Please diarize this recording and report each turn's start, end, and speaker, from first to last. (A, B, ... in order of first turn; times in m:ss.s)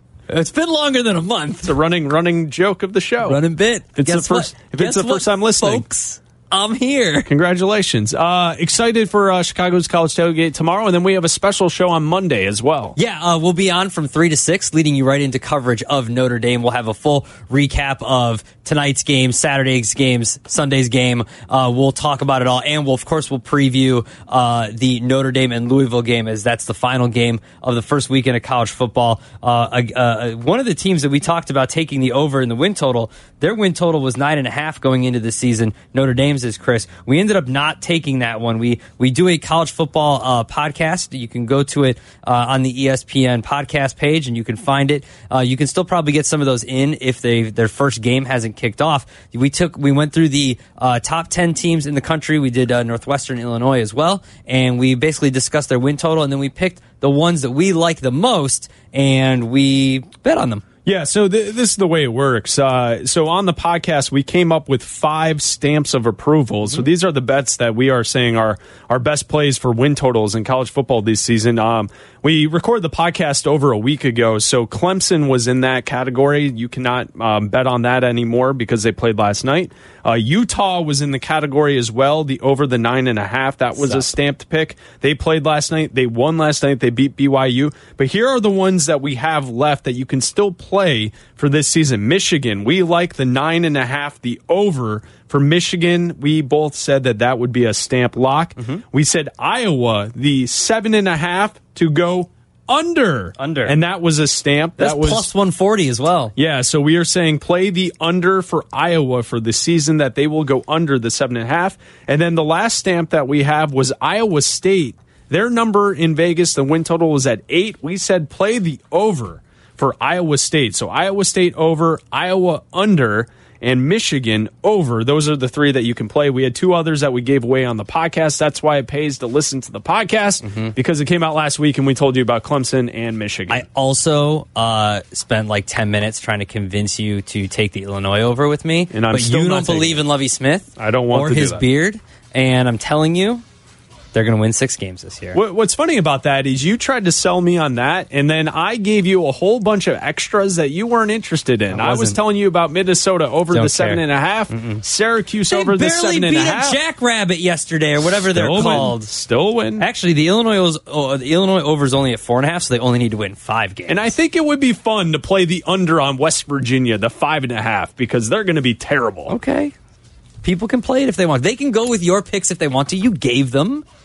0:00.3-0:01.7 A
0:01.6-0:03.4 B
0:03.2-0:07.3 A
0:04.0-0:05.8 B
0:07.3-0:13.0 B
0:13.0-1:00.6 A
1:00.8-1:45.3 B
1:23.8-1:24.1 A
1:43.4-1:43.7 A
1:44.8-1:46.3 A
1:46.4-2:13.6 B
2:10.4-2:10.7 A
2:13.5-2:23.4 A
2:18.9-2:20.0 B
2:20.8-2:21.6 B
2:24.1-2:25.4 A
2:25.3-2:36.8 B
2:31.7-2:32.2 A
2:33.5-2:34.8 A
2:35.5-2:39.1 A
2:38.2-2:39.8 B
2:39.8-2:44.1 A
2:43.9-2:49.3 B
2:49.3-2:49.7 A
2:50.4-2:53.8 A